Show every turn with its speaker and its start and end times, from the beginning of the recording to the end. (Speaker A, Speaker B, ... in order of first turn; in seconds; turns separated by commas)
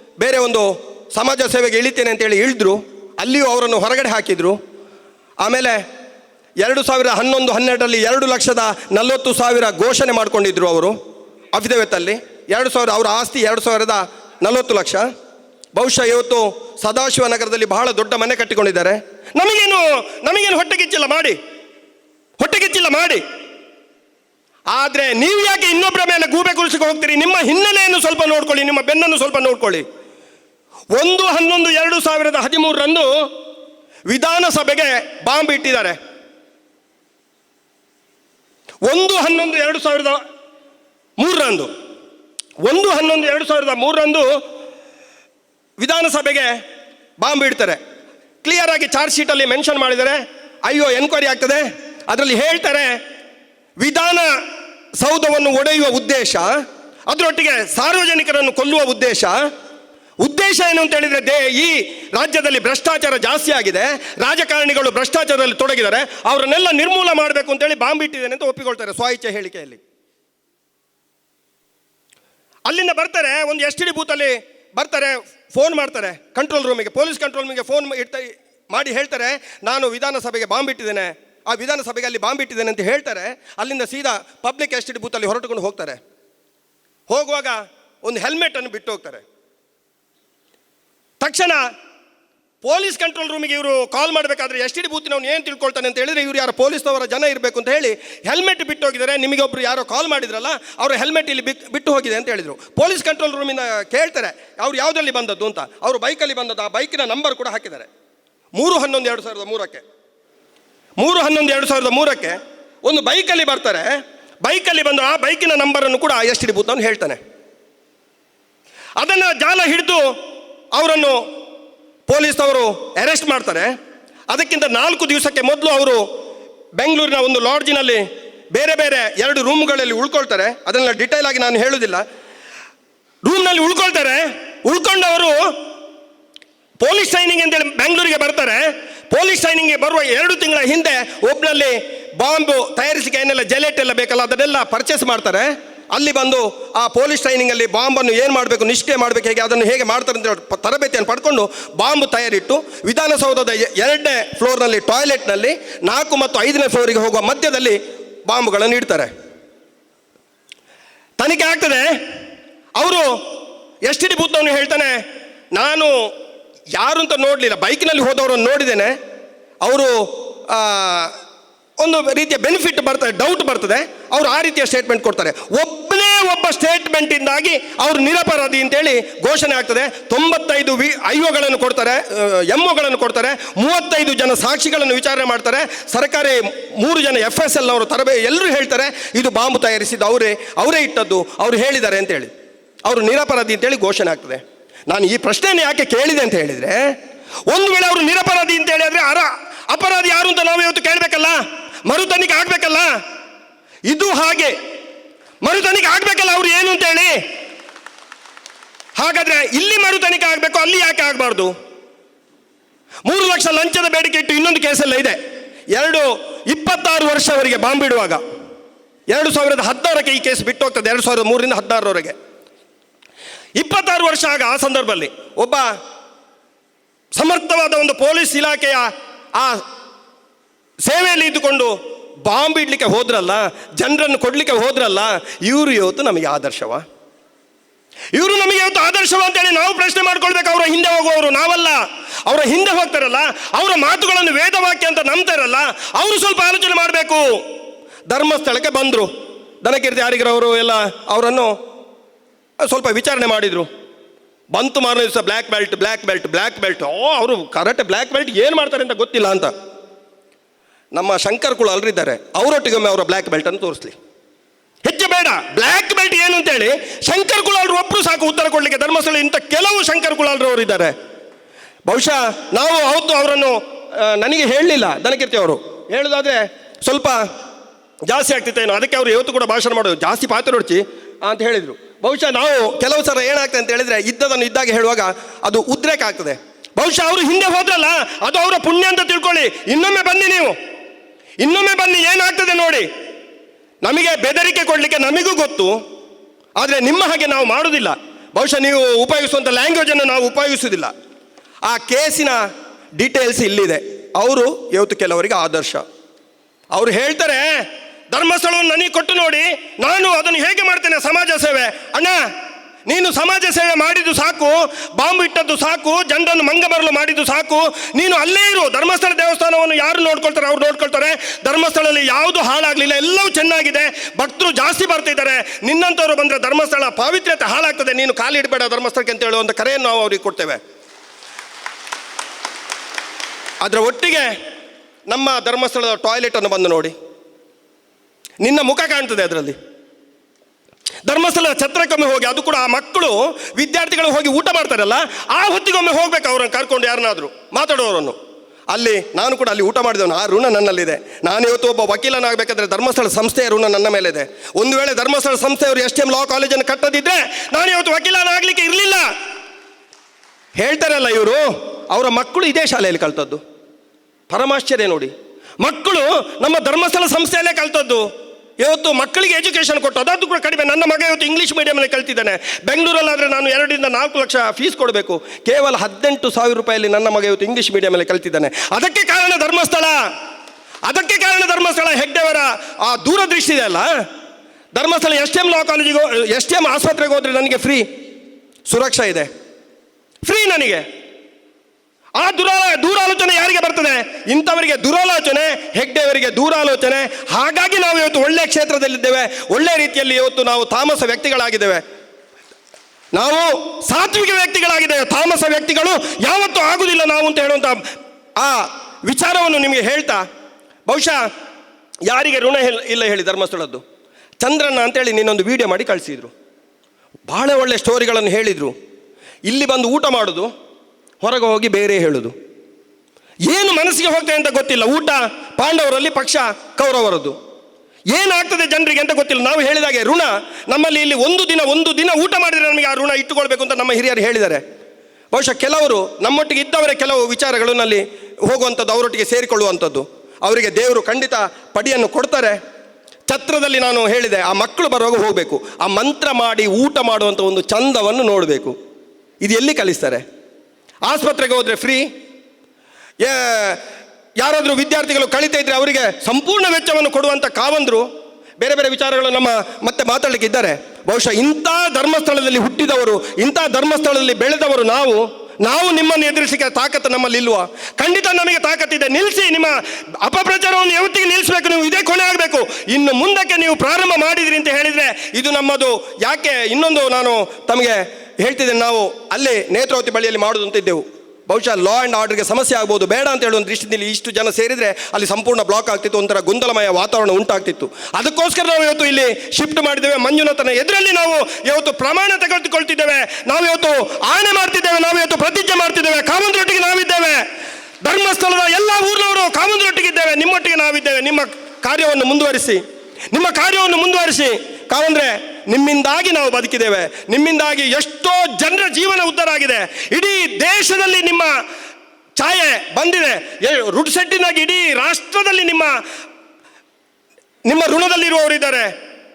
Speaker A: 0.2-4.6, Speaker A: 5.4-5.8, Speaker A: 6.6-10.9, Speaker A: 11.5-15.1, Speaker A: 15.8-21.4, Speaker A: 22.4-23.2, Speaker A: 24.7-29.8, Speaker A: 30.9-33.3, Speaker A: 34.1-36.0, Speaker A: 38.9-40.2, Speaker A: 41.2-41.7, Speaker A: 42.6-44.3, Speaker A: 45.8-46.5, Speaker A: 47.2-47.8, Speaker A: 48.4-53.0, Speaker A: 53.8-54.3, Speaker A: 55.0-56.5, Speaker A: 57.1-59.4, Speaker A: 60.2-69.8, Speaker A: 72.7-86.0, Speaker A: 87.1-89.2, Speaker A: 91.2-91.6, Speaker A: 92.6-107.9, Speaker A: 108.6-109.8, Speaker A: 111.0-117.2, Speaker A: 119.0-120.1, Speaker A: 120.7-121.2, Speaker A: 122.1-123.7, Speaker A: 124.3-126.0, Speaker A: 126.8-132.0, Speaker A: 133.2-135.5, Speaker A: 136.8-159.1, Speaker A: 161.2-161.9, Speaker A: 162.8-163.1, Speaker A: 163.9-164.9, Speaker A: 165.6-165.9, Speaker A: 166.7-168.9, Speaker A: 169.6-169.9, Speaker A: 170.5-171.1, Speaker A: 171.8-192.3, Speaker A: 192.8-196.8, Speaker A: 197.5-202.9, Speaker A: 203.9-204.6, Speaker A: 205.4-207.2, Speaker A: 209.0-211.5, Speaker A: 213.1-215.2, Speaker A: 215.7-218.2, Speaker A: 219.1-222.2, Speaker A: 223.6-225.7, Speaker A: 227.2-229.6, Speaker A: 230.8-231.7, Speaker A: 232.2-236.8, Speaker A: 238.2-247.3, Speaker A: 248.1-249.1, Speaker A: 249.6-251.5, Speaker A: 252.7-253.7, Speaker A: 254.5-259.5, Speaker A: 260.9-263.9, Speaker A: 264.9-270.9, Speaker A: 271.9-277.2, Speaker A: 278.1-290.6, Speaker A: 291.4-292.9, Speaker A: 293.8-295.8, Speaker A: 296.6-300.9, Speaker A: 301.7-302.4, Speaker A: 303.0-305.8, Speaker A: 306.7-312.2, Speaker A: 312.9-330.6, Speaker A: 333.6-334.3, Speaker A: 335.1-336.9, Speaker A: 338.4-339.6, Speaker A: 341.1-348.2, Speaker A: 348.7-359.1, Speaker A: 360.6-363.4, Speaker A: 364.3-368.1, Speaker A: 368.6-380.0, Speaker A: 380.9-383.9, Speaker A: 384.8-387.9, Speaker A: 388.7-389.3, Speaker A: 390.2-390.9, Speaker A: 392.2-401.8, Speaker A: 403.1-407.8, Speaker A: 408.4-410.2, Speaker A: 410.9-411.2, Speaker A: 412.1-413.8, Speaker A: 414.4-416.3, Speaker A: 417.3-418.7, Speaker A: 419.5-420.5, Speaker A: 421.2-422.3, Speaker A: 423.5-427.4, Speaker A: 428.1-434.6, Speaker A: 435.3-442.6, Speaker A: 443.3-448.8, Speaker A: 449.4-450.2, Speaker A: 451.1-452.0, Speaker A: 453.2-453.8, Speaker A: 454.4-458.1, Speaker A: 458.6-497.4, Speaker A: 498.0-502.8, Speaker A: 503.3-511.5, Speaker A: 512.4-515.9, Speaker A: 517.7-518.9